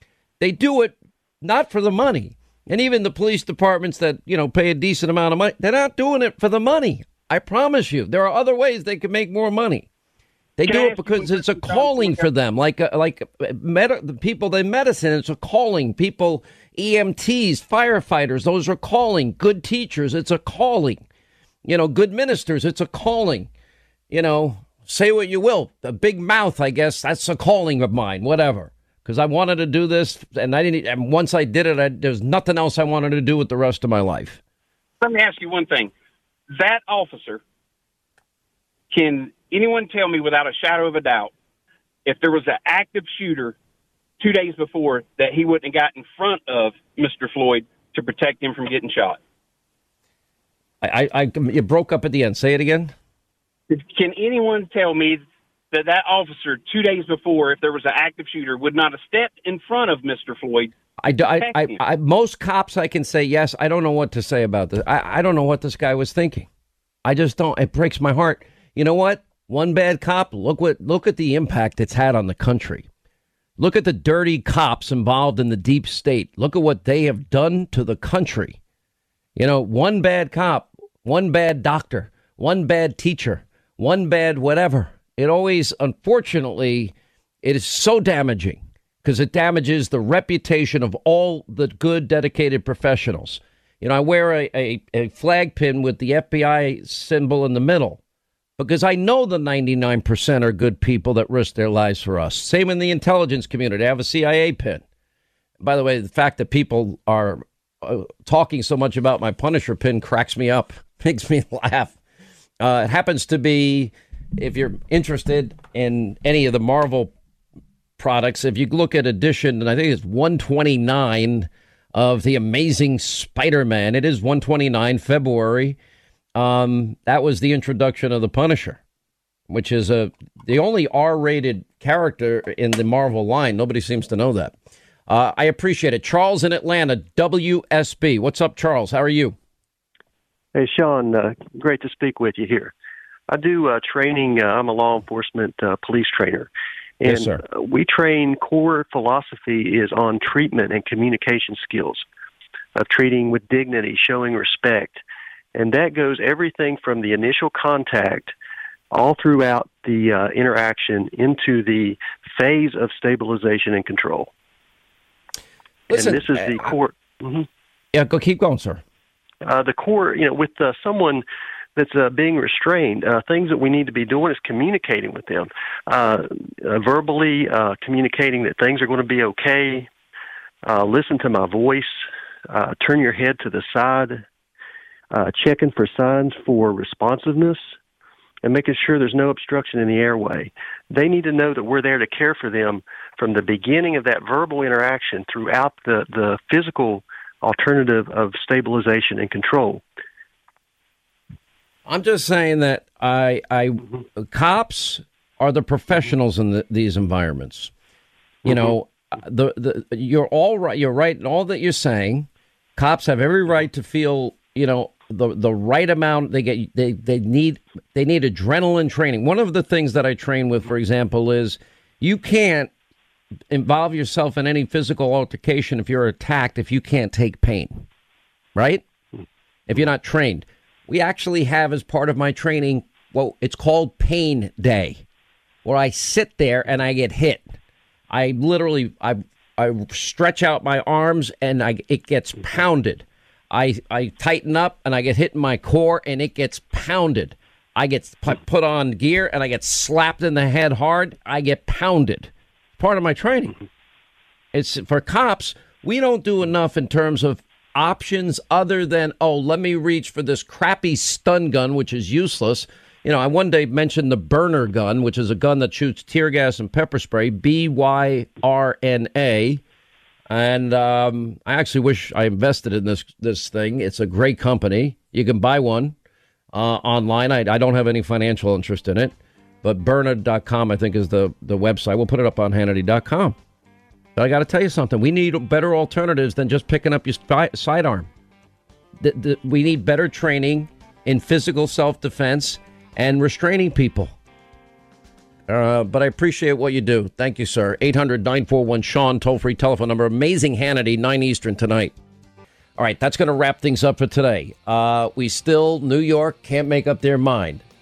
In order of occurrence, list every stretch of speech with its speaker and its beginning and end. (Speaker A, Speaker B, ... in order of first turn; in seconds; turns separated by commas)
Speaker A: 0.4-9.9, Speaker A: 10.6-21.0, Speaker B: 10.6-12.3, Speaker A: 21.6-23.5, Speaker A: 24.1-34.4, Speaker B: 35.0-35.9, Speaker B: 36.5-37.4, Speaker B: 38.9-41.3, Speaker B: 42.0-43.5, Speaker B: 44.2-49.2, Speaker A: 50.8-52.9, Speaker B: 53.7-61.8, Speaker A: 61.0-66.5, Speaker A: 67.0-72.9, Speaker A: 73.6-78.6, Speaker A: 79.3-98.0, Speaker A: 98.6-104.8, Speaker A: 105.6-112.0, Speaker A: 112.6-117.1, Speaker A: 118.0-125.8, Speaker A: 126.3-128.8, Speaker A: 129.5-134.5, Speaker A: 135.1-139.3, Speaker C: 140.5-142.7, Speaker C: 143.3-152.0, Speaker A: 147.0-147.4, Speaker C: 152.8-155.0, Speaker C: 155.5-158.3, Speaker C: 158.9-164.3, Speaker A: 165.9-166.7, Speaker C: 165.9-167.4, Speaker A: 167.9-168.8, Speaker C: 169.4-171.2, Speaker C: 171.8-179.9, Speaker C: 180.7-184.2, Speaker C: 185.1-187.7, Speaker C: 188.4-199.8, Speaker A: 201.9-207.7, Speaker A: 208.4-222.7, Speaker C: 208.4-208.7, Speaker A: 223.5-227.8, Speaker A: 228.5-228.8, Speaker A: 229.7-235.0, Speaker A: 235.6-237.5, Speaker A: 238.1-253.5, Speaker A: 254.5-269.6, Speaker A: 270.3-275.9, Speaker A: 276.5-283.4, Speaker A: 284.1-288.1, Speaker A: 289.0-294.1, Speaker A: 295.5-301.9, Speaker A: 302.8-307.6